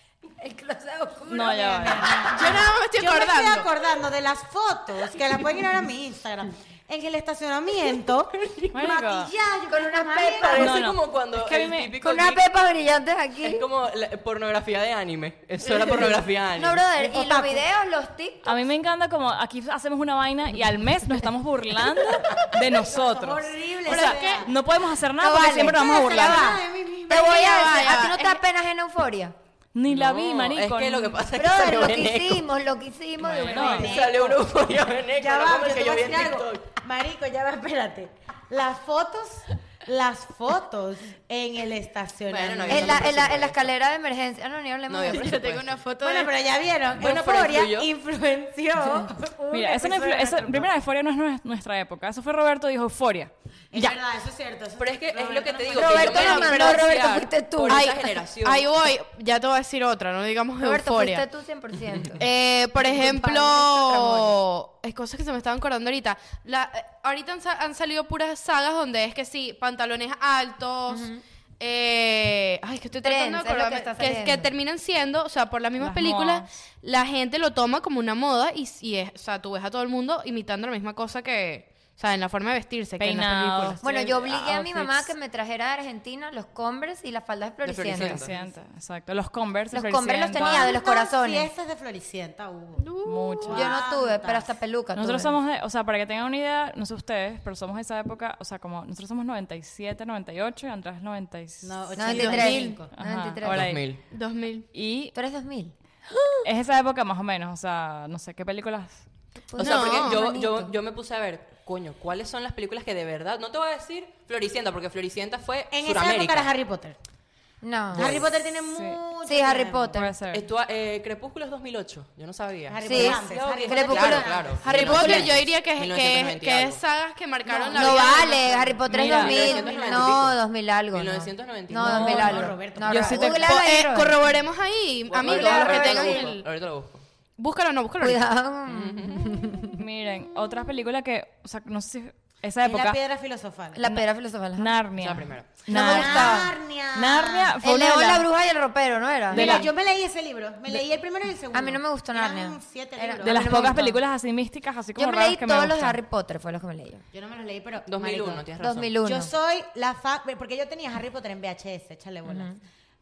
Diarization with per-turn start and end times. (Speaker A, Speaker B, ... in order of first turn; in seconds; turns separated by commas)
Speaker A: 0.4-2.6, Speaker B: 1.3-2.2, Speaker C: 2.3-3.7, Speaker D: 2.4-10.7, Speaker E: 8.4-8.7, Speaker B: 8.7-9.3, Speaker A: 9.7-10.7, Speaker E: 10.4-12.4, Speaker B: 10.6-11.9, Speaker A: 12.0-13.6, Speaker E: 13.4-16.8, Speaker D: 15.7-16.1, Speaker A: 16.6-18.5, Speaker D: 17.0-17.6, Speaker B: 18.4-26.6, Speaker D: 22.5-24.5, Speaker C: 23.9-24.5, Speaker A: 25.2-26.2, Speaker D: 25.2-27.5, Speaker C: 27.1-28.4, Speaker A: 27.1-29.4, Speaker B: 29.7-31.2, Speaker E: 29.9-32.5, Speaker A: 31.4-34.4, Speaker B: 33.2-33.9, Speaker D: 33.5-34.4, Speaker E: 33.7-36.7, Speaker D: 35.1-43.2, Speaker E: 42.3-43.7, Speaker A: 42.7-45.3, Speaker E: 44.9-45.8, Speaker C: 45.1-46.3, Speaker D: 46.0-50.7, Speaker E: 47.0-47.9, Speaker B: 49.5-53.9, Speaker D: 53.7-56.9, Speaker E: 54.8-58.7, Speaker A: 55.7-57.9, Speaker C: 55.8-57.0, Speaker C: 57.7-61.2, Speaker A: 60.6-64.3, Speaker E: 61.9-62.2, Speaker C: 62.2-71.1, Speaker A: 70.9-71.2, Speaker C: 71.6-83.8, Speaker A: 73.0-74.5, Speaker B: 75.8-76.5, Speaker B: 83.0-85.1, Speaker A: 83.8-88.5, Speaker E: 87.6-88.3, Speaker B: 87.9-90.7, Speaker A: 89.7-91.5, Speaker D: 90.4-92.8, Speaker C: 92.8-93.5, Speaker B: 93.0-93.7, Speaker D: 93.4-94.5, Speaker A: 93.5-95.4, Speaker B: 95.0-101.7, Speaker D: 101.6-102.9, Speaker A: 102.0-103.7, Speaker C: 102.1-102.8, Speaker B: 102.9-104.0, Speaker E: 103.5-104.0, Speaker C: 104.1-104.7, Speaker B: 104.7-105.1, Speaker A: 105.1-105.8, Speaker B: 106.4-109.0, Speaker A: 109.5-110.7, Speaker C: 109.6-110.2, Speaker E: 109.6-116.5, Speaker D: 115.7-117.0, Speaker A: 117.6-118.2, Speaker D: 117.9-120.1, Speaker E: 117.9-118.5, Speaker B: 118.7-119.0, Speaker A: 119.2-120.1, Speaker B: 119.9-120.5, Speaker E: 120.3-126.8, Speaker D: 122.7-125.3, Speaker A: 122.8-125.3, Speaker C: 124.7-128.7, Speaker D: 127.5-130.3, Speaker A: 127.7-134.2, Speaker B: 128.9-129.5, Speaker E: 128.9-130.4, Speaker E: 130.9-132.5, Speaker B: 131.8-133.6, Speaker D: 131.8-133.2, Speaker C: 133.1-136.5, Speaker E: 135.1-137.0, Speaker A: 135.2-136.3, Speaker C: 137.4-138.3, Speaker A: 138.0-139.8, Speaker E: 138.7-139.7, Speaker B: 139.6-143.0, Speaker D: 142.6-143.8, Speaker A: 143.8-144.8, Speaker B: 143.8-148.3, Speaker E: 145.0-145.6, Speaker A: 145.7-146.4, Speaker D: 145.7-147.6, Speaker A: 147.6-149.7, Speaker D: 149.3-153.9, Speaker B: 149.3-149.7, Speaker A: 151.5-154.0, Speaker B: 153.2-156.0, Speaker A: 154.9-157.1, Speaker D: 157.1-158.4, Speaker E: 157.9-158.9, Speaker A: 158.6-159.3, Speaker D: 159.0-162.5, Speaker A: 162.2-162.6